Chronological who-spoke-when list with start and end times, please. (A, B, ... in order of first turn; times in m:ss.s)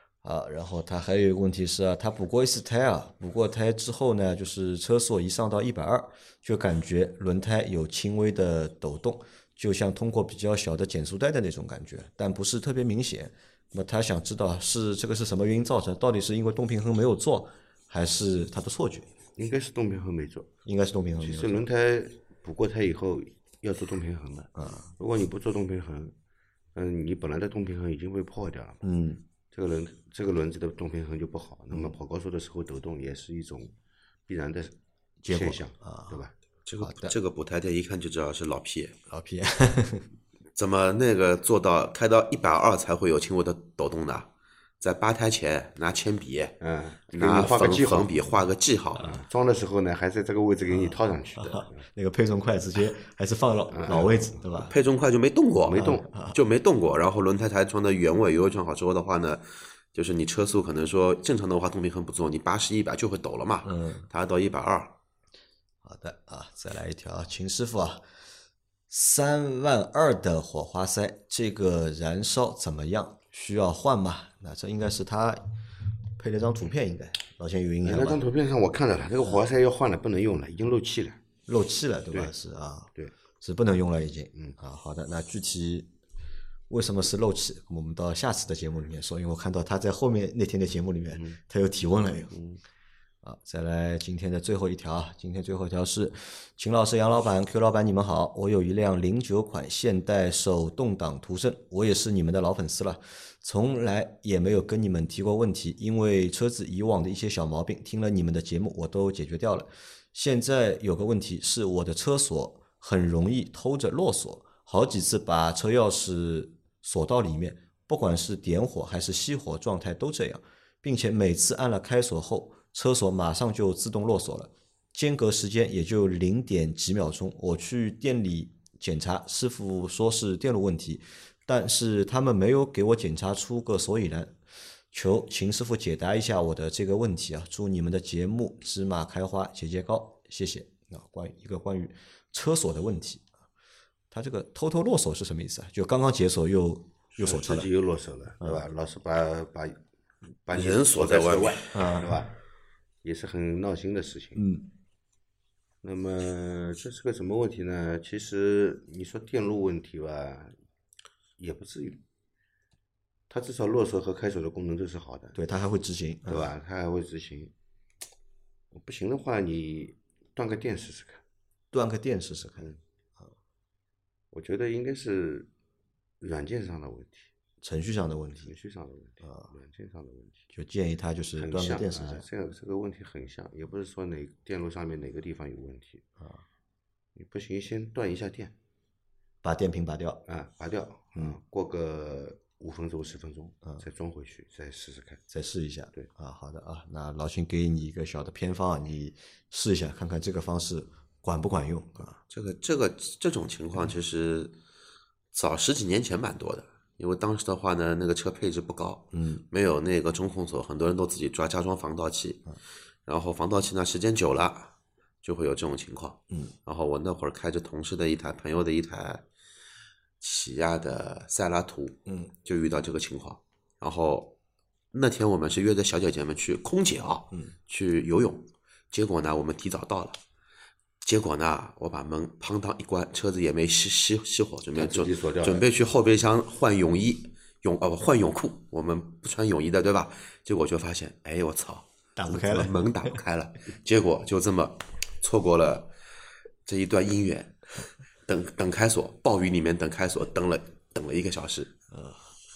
0:00.2-0:19.1 A
0:19.4-0:20.5 B
0:20.7-0:21.6 A
0:21.2-0:26.1 B
0:24.6-0:24.9 A
0:26.8-0:28.8 B
0:28.8-0:29.2 A
0:29.5-0:33.7 B
0:34.3-0:34.8 B
0:35.2-0:36.2 A
0:35.3-0:36.3 B
0:36.6-0:39.0 C
0:36.8-0:37.2 A
0:39.1-0:40.1 A
0:40.6-0:44.3 C
0:44.8-0:46.6 C
0:46.6-0:48.2 B
0:47.1-0:49.2 C
0:49.0-0:51.8 B
0:50.7-0:54.7 A
0:53.7-0:54.3 B
0:54.6-1:04.9 C
0:55.7-0:56.0 B
0:55.8-0:56.4 A
1:03.6-1:04.1 A
1:05.8-1:08.0 A
1:08.9-1:15.4 A
1:16.2-1:18.2 A
1:17.8-1:21.2 B
1:21.5-1:25.9 A
1:26.7-1:32.4 A
1:31.1-1:31.4 B
1:32.3-1:32.6 B
1:33.2-2:14.4 A
2:14.9-2:23.3 A
2:24.1-2:27.7 A
2:27.2-2:29.8 B
2:30.5-2:32.4 B
2:30.5-2:31.7 C
2:31.7-2:32.1 A
2:33.0-2:34.4 B
2:34.4-2:34.7 A
2:35.8-2:40.6 B
2:41.4-2:42.0 B
2:43.3-2:45.4 B
2:45.4-2:46.5 A
2:46.3-2:47.5 B
2:48.7-2:51.2 B
2:51.7-2:52.7 A
2:54.3-2:55.5 B
2:56.2-2:57.3 B
2:57.6-2:58.5 A
2:58.5-3:00.4 B
2:59.2-2:59.5 A
3:00.5-3:02.3 A
3:01.4-3:06.0 B
3:07.2-3:08.5 B
3:09.4-3:10.2 A
3:10.3-3:15.2 B
3:15.3-3:22.2 A
3:22.3-3:24.6 C
3:25.3-3:32.5 C
3:29.1-3:29.4 A
3:33.1-3:39.2 C
3:40.2-3:44.4 C
3:44.9-3:50.2 C
3:51.0-4:05.9 C
3:54.8-3:55.6 B
4:02.2-4:02.8 A
4:06.6-4:07.6 C
4:08.3-4:11.7 C
4:11.9-4:12.3 A